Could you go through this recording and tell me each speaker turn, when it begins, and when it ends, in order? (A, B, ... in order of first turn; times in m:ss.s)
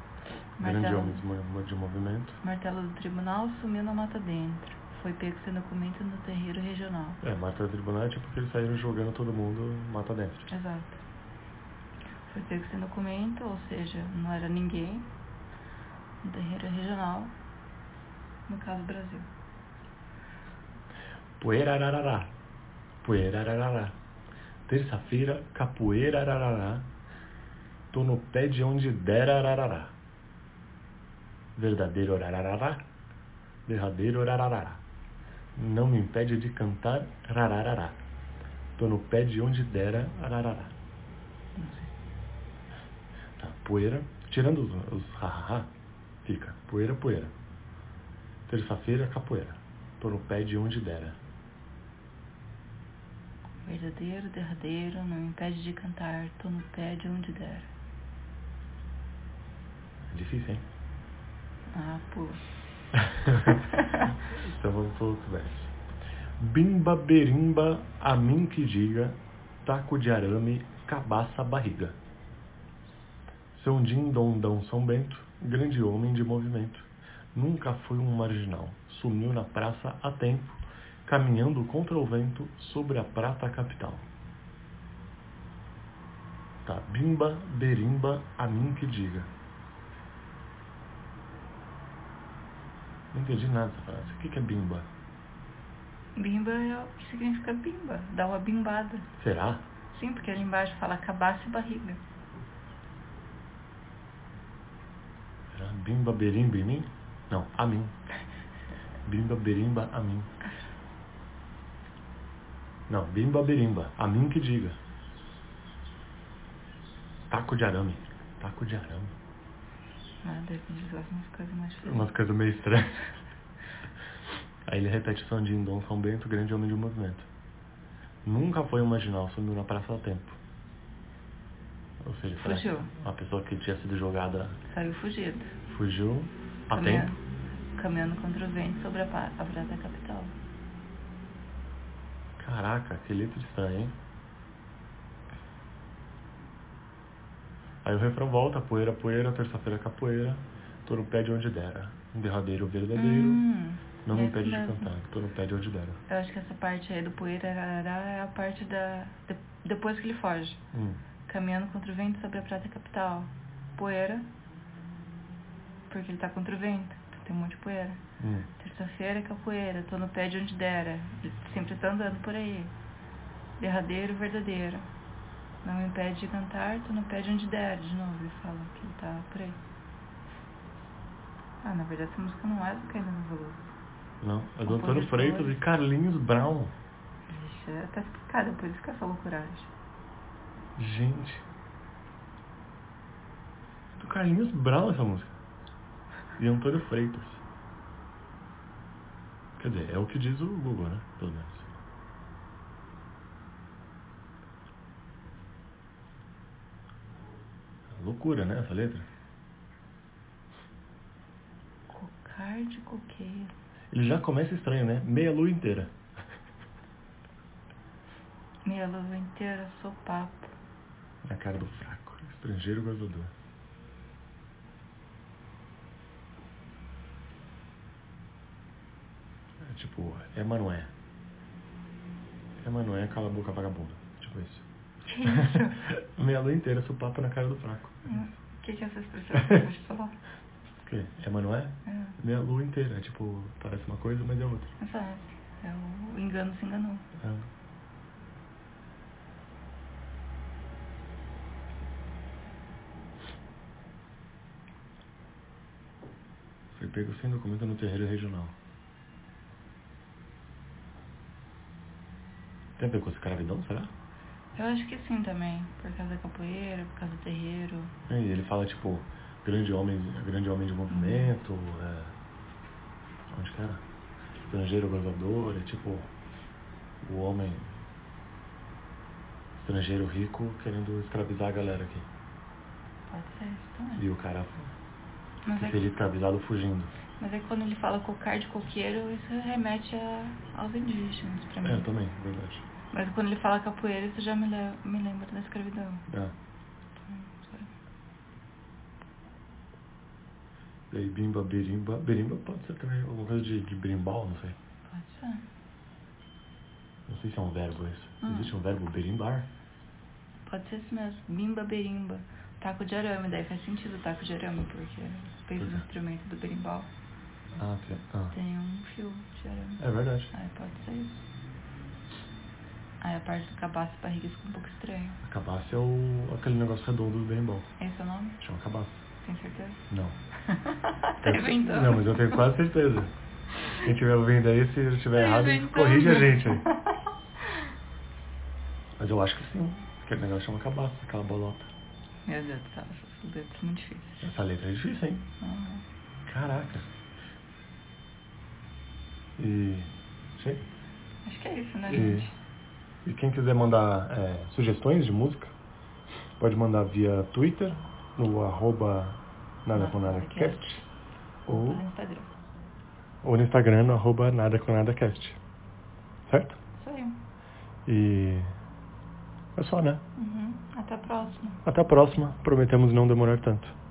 0:00.6-0:01.2 A
0:00.6-0:02.4 B
0:02.4-0:07.2 A
0:07.2-0:10.5 B
0:10.5-0:11.0 A
0:12.3-0:15.1 A
0:16.2-0:17.3 A
0:18.5-0:19.3 A
0:21.4-0:22.3 B
0:23.0-0:24.0 B
0:24.7-0:26.9 B
0:27.9-0:30.0 B
0:31.6-0:32.8 B
0:33.7-0:34.8 B
0:35.6-0:38.0 B
0:38.8-0:40.7 B
0:41.6-0:41.9 A
0:43.4-0:45.7 B
0:46.2-0:47.3 B
0:48.5-0:51.2 B
0:53.6-0:57.7 A
1:00.1-1:00.6 B
1:01.7-1:02.4 A
1:03.0-1:03.6 B
1:03.7-1:04.1 A
1:04.3-1:05.8 B
1:06.4-1:12.0 B
1:13.5-1:24.0 B
1:26.6-1:29.3 B
1:33.1-1:34.9 B
1:36.2-1:39.1 A
1:39.2-1:39.6 B
1:39.9-1:42.0 A
1:45.5-1:48.0 B
1:49.1-1:50.3 B
1:52.9-1:54.8 B
1:57.3-1:59.2 B
2:00.2-2:02.1 A
2:01.8-2:03.1 B
2:04.7-2:07.3 B
2:08.2-2:10.4 B
2:12.0-2:14.6 B
2:12.4-2:12.9 A
2:14.7-2:15.5 A
2:15.7-2:17.1 B
2:16.7-2:17.2 A
2:17.8-2:20.3 A
2:22.4-2:24.0 B
2:27.8-2:33.4 B
2:32.9-2:34.9 A
2:34.0-2:36.0 B
2:36.1-2:40.6 A
2:40.7-2:41.0 B
2:41.3-2:44.3 A
2:45.9-2:48.0 A
2:48.2-2:48.5 B
2:48.6-2:52.7 A
2:53.6-2:54.9 A
2:55.6-2:59.6 A
3:01.6-3:03.6 A
3:04.2-3:06.7 B
3:04.6-3:05.6 A
3:07.3-3:09.7 A
3:10.8-3:11.4 B
3:14.0-3:15.4 B
3:16.4-3:17.4 B
3:19.6-3:21.7 B
3:27.9-3:29.1 B
3:31.9-3:33.5 A
3:33.9-3:35.9 B
3:38.6-3:40.5 A
3:41.2-3:43.3 B
3:49.6-3:50.9 B
3:52.6-3:54.6 B
3:55.1-3:55.8 A
3:55.2-3:58.2 B
3:58.0-4:00.2 A
4:00.8-4:04.7 B
4:01.9-4:02.2 A
4:04.8-4:07.1 A
4:16.7-4:18.6 B
4:22.8-4:23.9 B
4:24.5-4:27.9 A
4:28.1-4:32.1 B
4:30.9-4:31.3 A
4:33.3-4:33.8 B
4:34.4-4:36.1 B
4:37.0-4:37.7 B
4:39.6-4:42.1 B
4:43.1-4:44.0 A
4:44.0-4:44.7 B
4:45.5-4:45.8 A
4:45.6-4:46.9 B
4:47.2-4:51.9 A
4:51.6-4:52.6 B
4:52.9-4:56.0 A
4:56.1-4:56.3 B
4:57.1-4:57.7 A
5:00.9-5:04.6 B
5:04.9-5:05.4 A
5:07.1-5:09.5 B
5:08.2-5:08.5 A
5:10.5-5:16.9 A
5:15.6-5:15.9 B
5:17.6-5:18.4 B
5:18.3-5:21.2 A
5:19.8-5:20.3 B
5:23.0-5:25.2 A
5:25.2-5:27.7 B
5:27.8-5:28.4 A
5:28.4-5:29.0 B
5:29.2-5:29.8 A
5:29.9-5:30.2 B
5:30.4-5:32.5 A
5:31.2-5:33.1 B
5:33.6-5:36.7 B
5:35.1-5:37.0 A
5:39.0-5:41.7 B
5:42.3-5:44.3 A
5:44.2-5:45.2 B
5:45.4-5:45.8 A
5:46.2-5:46.9 B
5:49.4-5:50.6 B
5:51.2-5:52.3 A
5:51.9-5:52.3 B
5:53.0-5:55.5 B
5:56.4-6:00.8 B
5:59.7-6:00.8 A
6:01.5-6:01.8 B
6:01.5-6:02.3 A
6:03.2-6:05.4 B
6:06.3-6:06.6 B
6:06.8-6:07.2 A
6:07.8-6:08.6 B
6:09.6-6:10.0 B
6:10.2-6:11.6 A
6:11.6-6:13.8 B